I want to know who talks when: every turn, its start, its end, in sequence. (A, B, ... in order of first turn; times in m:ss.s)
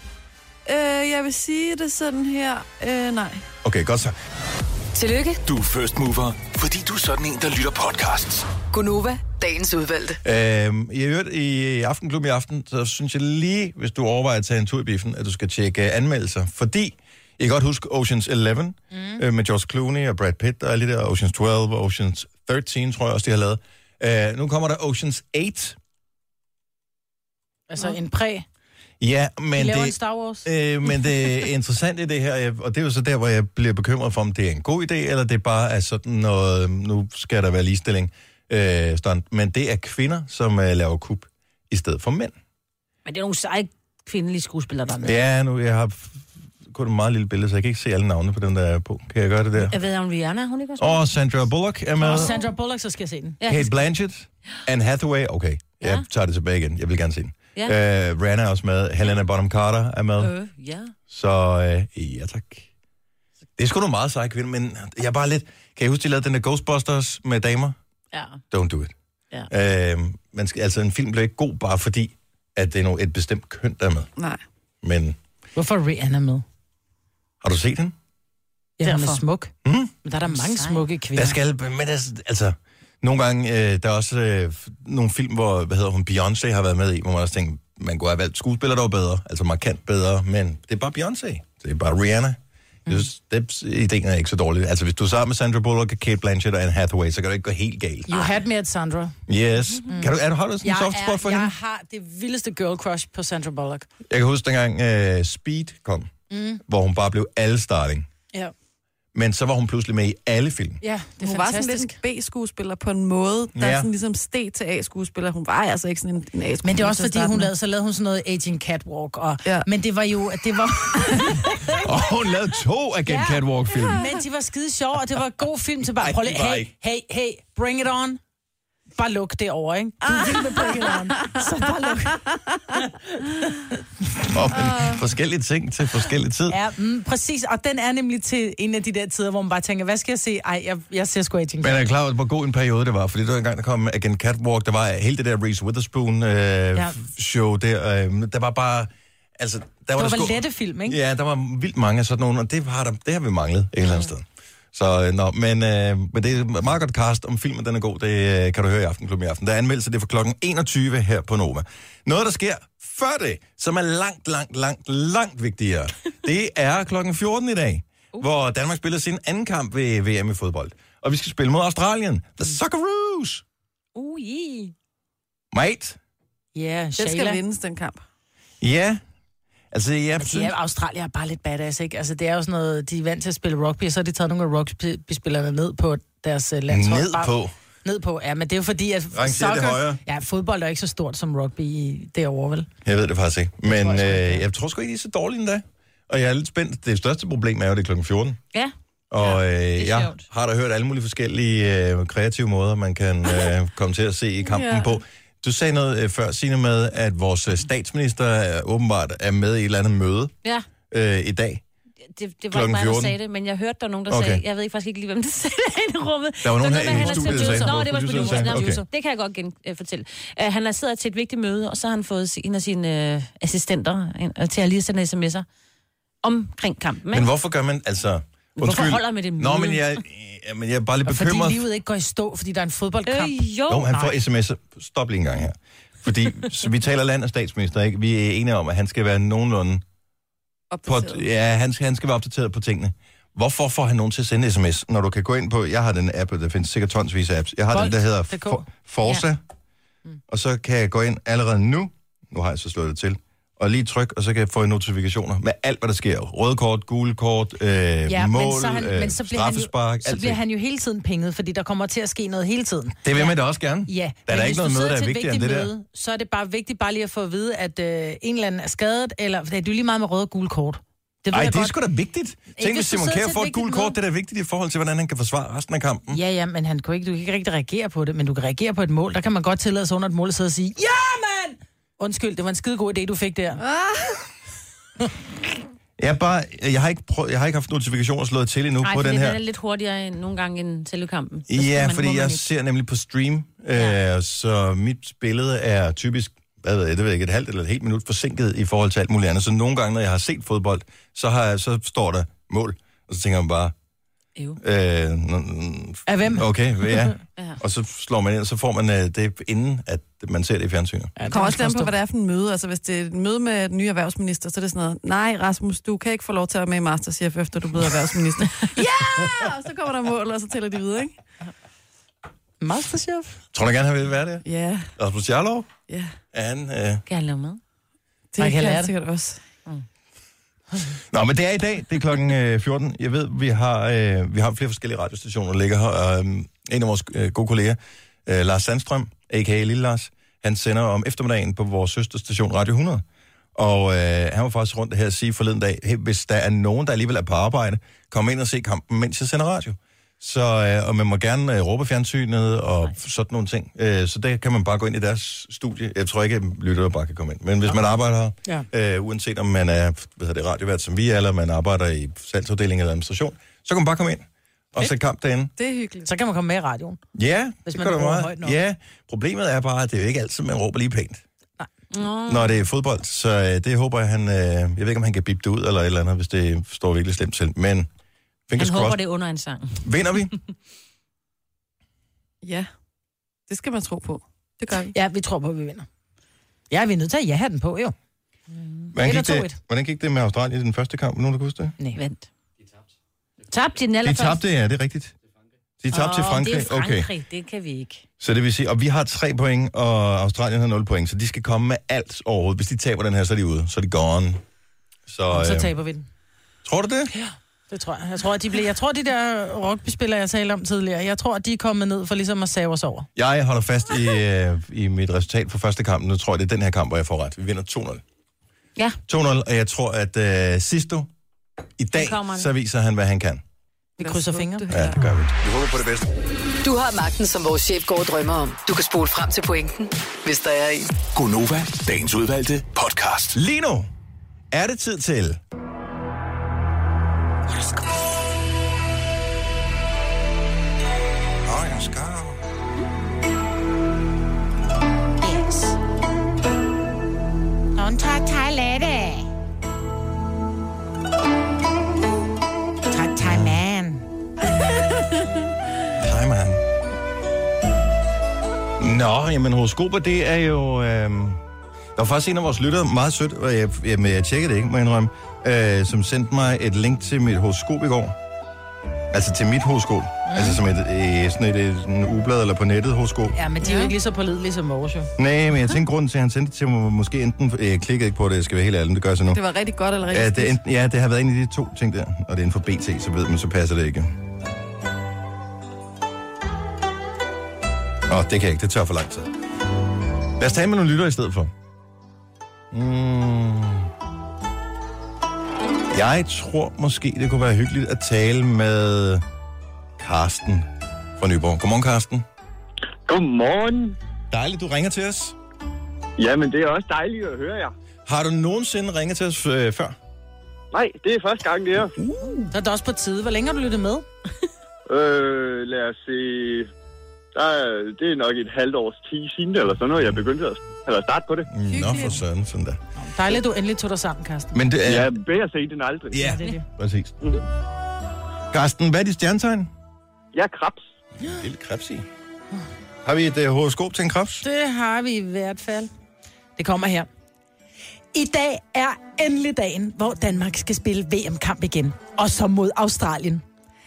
0:00.7-0:03.4 A
0:03.6-0:04.2 B
0:04.9-0:05.4 C
0:05.4-0:08.5 D
0:08.7-0:10.2 C
0:10.2-0:25.8 B
0:18.9-0:19.2 E
0:27.7-0:28.4 E
0:29.0-0:42.4 B
0:29.6-0:30.5 E
0:43.0-0:45.2 F
0:45.0-0:49.8 B
0:49.6-0:51.0 F
0:50.8-0:52.3 B
0:52.0-0:53.4 E
0:53.4-0:53.8 F
0:53.5-1:00.3 B
0:55.8-0:56.1 F
1:00.2-1:00.9 F
1:01.1-1:02.7 B
1:03.6-1:07.8 B
1:08.1-1:08.4 F
1:08.5-1:08.9 B
1:09.5-1:14.1 B
1:14.2-1:14.4 A
1:14.8-1:15.2 B
1:15.6-1:16.4 E
1:17.4-1:17.9 B
1:18.8-1:19.5 E
1:18.8-1:19.2 F
1:19.6-1:19.9 B
1:20.0-1:21.4 E
1:20.4-1:20.8 F
1:21.2-1:38.3 B
1:38.1-1:39.2 E
1:39.3-1:41.5 B
1:39.9-1:43.9 E
1:44.1-1:46.1 B
1:46.3-1:46.6 E
1:46.7-1:48.1 B
1:49.1-1:50.8 B
1:50.8-1:52.0 E
1:51.2-1:57.5 A
1:53.6-1:53.9 B
1:56.6-2:01.8 E
2:01.8-2:04.0 B
2:03.1-2:08.2 E
2:06.0-2:06.7 B
2:09.0-2:13.8 E
2:10.7-2:11.4 A
2:12.3-2:12.6 A
2:14.3-2:16.6 B
2:14.6-2:15.0 A
2:16.5-2:21.8 E
2:21.6-2:53.4 B
2:30.0-2:31.0 E
2:54.0-2:54.7 F
2:55.5-2:56.0 B
2:56.5-2:57.4 E
2:57.0-2:58.0 A
2:58.6-2:59.0 B
2:59.7-3:00.5 B
3:00.2-3:07.3 E
3:06.7-3:07.5 B
3:07.8-3:12.7 E
3:09.1-3:10.0 B
3:12.8-3:18.4 B
3:13.6-3:14.4 E
3:18.5-3:20.2 F
3:19.1-3:30.3 B
3:24.4-3:25.0 A
3:30.9-3:31.6 B
3:32.1-3:45.4 F
3:32.5-3:33.2 B
3:34.1-3:34.4 B
3:36.4-3:38.8 B
3:37.0-3:38.4 E
3:46.2-3:47.3 F
3:47.1-3:51.6 B
3:48.6-3:50.0 F
3:51.1-3:54.1 E
3:53.1-3:53.9 F
3:53.7-3:59.8 B
4:00.7-4:01.2 A
4:00.8-4:09.4 B
4:07.7-4:09.2 E
4:10.3-4:20.4 B
4:18.1-4:23.3 E
4:23.0-4:25.7 B
4:23.9-4:31.8 E
4:31.3-4:36.2 B
4:32.5-4:34.0 E
4:36.1-4:43.6 E
4:43.6-4:44.2 A
4:46.0-4:49.4 B
4:48.8-4:52.4 F
4:51.5-5:03.7 B
5:04.6-5:11.2 B
5:06.1-5:07.1 E
5:11.2-5:11.9 E
5:11.3-5:21.2 A
5:22.6-5:23.4 E
5:23.5-5:24.4 B
5:24.4-5:24.9 A
5:25.0-5:25.7 B
5:25.9-5:26.1 A
5:26.3-5:27.0 B
5:27.1-5:27.6 F
5:28.3-5:29.4 A
5:28.4-5:28.9 E
5:31.1-5:43.0 B
5:43.6-6:05.5 B
6:05.6-6:06.1 A
6:06.0-6:07.0 E
6:07.1-6:11.2 B
6:07.6-6:08.6 E
6:11.9-6:12.5 F
6:12.3-6:17.9 B
6:18.5-6:19.0 B
6:18.6-6:19.8 F
6:19.8-6:20.3 B
6:22.4-6:22.7 A
6:23.5-6:24.9 A
6:24.9-6:25.9 E
6:26.7-6:28.0 E
6:28.9-6:31.8 B
6:29.0-6:29.6 E
6:32.0-6:32.3 F
6:33.5-6:34.4 F
6:34.0-6:35.1 B
6:35.8-6:37.1 B
6:35.9-6:38.0 F
6:38.2-6:44.4 B
6:45.1-6:45.7 B
6:45.3-6:46.1 E
6:46.6-6:47.1 B
6:47.7-6:53.1 E
6:53.2-6:58.0 B
6:59.1-7:01.1 B
7:01.8-7:03.4 B
7:02.0-7:02.5 F
7:04.0-7:04.7 E
7:04.0-7:05.0 A
7:04.7-7:06.1 B
7:06.6-7:11.0 C
7:11.1-7:13.4 D
7:13.3-7:13.9 B
7:14.5-7:15.4 B
7:21.4-7:22.4 B
7:25.2-7:25.8 E
7:27.8-7:29.3 E
7:32.9-7:34.0 E
7:33.2-7:33.6 B
7:36.0-7:36.6 B
7:38.8-7:41.4 B
7:42.0-7:48.2 B
7:49.1-7:53.4 B
7:50.3-7:50.6 E
7:53.4-7:55.1 E
7:53.6-7:53.9 A
7:55.2-7:59.4 B
7:59.3-8:00.6 A
8:00.1-8:04.1 B
8:08.1-8:09.3 B
8:10.4-8:11.5 B
8:12.7-8:13.9 B
8:15.9-8:19.2 B
8:20.0-8:22.2 B
8:23.1-8:24.0 G
8:24.3-8:25.4 B
8:26.2-8:27.7 G
8:28.1-8:30.0 B
8:30.7-8:32.0 G
8:32.5-8:34.1 E
8:34.9-8:36.7 G
8:37.4-8:41.5 G
8:41.5-8:42.8 B
8:41.6-8:42.2 A
8:43.0-8:44.6 E
8:44.5-8:45.2 B
8:44.8-8:46.3 G
8:46.1-8:47.2 B
8:46.2-8:46.6 E
8:48.5-8:49.7 B
8:50.3-8:50.9 G
8:51.2-8:52.1 B
8:53.0-8:54.4 B
8:54.4-8:55.9 E
8:56.6-8:57.1 E
8:58.1-9:03.4 E